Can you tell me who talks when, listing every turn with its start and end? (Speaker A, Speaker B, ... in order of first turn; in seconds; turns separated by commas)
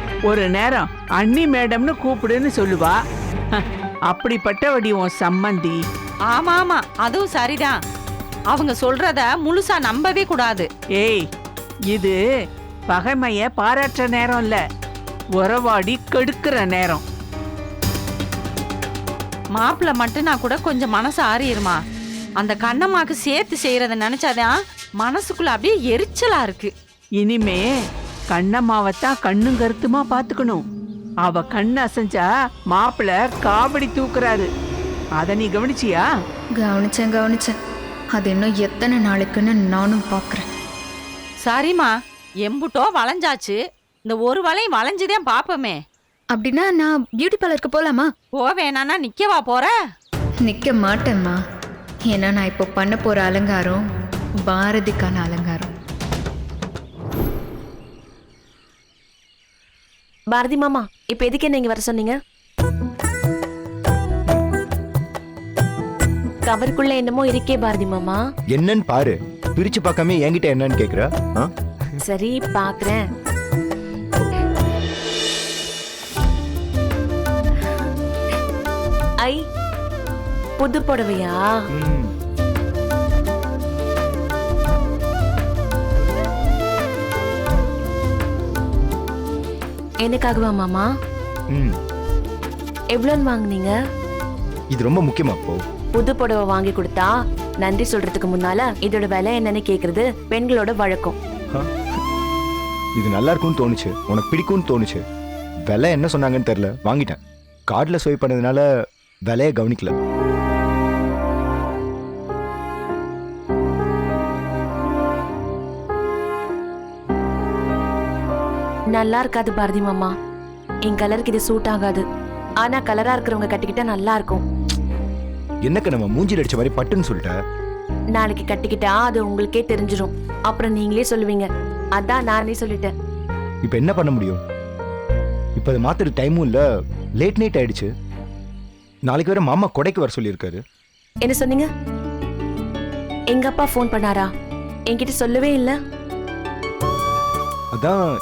Speaker A: 0.3-3.0, Speaker A: 3.5-5.8, Speaker B: 6.3-7.8, Speaker B: 8.5-10.7, Speaker A: 11.0-11.2, Speaker A: 12.9-14.6, Speaker A: 15.4-17.0, Speaker B: 19.5-21.8, Speaker B: 22.4-26.7, Speaker A: 27.2-27.6, Speaker A: 28.3-30.6, Speaker A: 31.2-34.5, Speaker A: 35.2-36.0, Speaker C: 36.6-37.5, Speaker C: 38.1-40.4, Speaker B: 41.4-41.9, Speaker B: 42.4-45.8, Speaker C: 46.3-48.1, Speaker B: 48.4-49.7, Speaker C: 50.4-51.4, Speaker C: 52.1-53.8, Speaker C: 54.5-55.7, Speaker D: 60.3-62.1, Speaker D: 66.4-68.2, Speaker E: 68.5-71.5, Speaker D: 72.0-73.0, Speaker D: 80.6-81.6, Speaker E: 81.7-82.1, Speaker D: 90.0-90.8, Speaker D: 92.9-93.7, Speaker E: 94.7-95.6, Speaker D: 95.9-97.1, Speaker D: 97.6-101.1, Speaker E: 103.0-105.0, Speaker E: 105.7-108.6, Speaker E: 109.3-110.0, Speaker D: 118.9-120.1, Speaker D: 120.9-122.0, Speaker D: 122.6-124.4, Speaker E: 125.6-127.3, Speaker D: 128.1-131.4, Speaker D: 132.0-132.9, Speaker E: 133.6-134.4, Speaker E: 135.6-136.6, Speaker E: 137.2-137.9, Speaker E: 139.1-140.6, Speaker D: 141.2-141.7, Speaker D: 143.3-144.3, Speaker D: 144.9-145.7, Speaker E: 147.7-148.0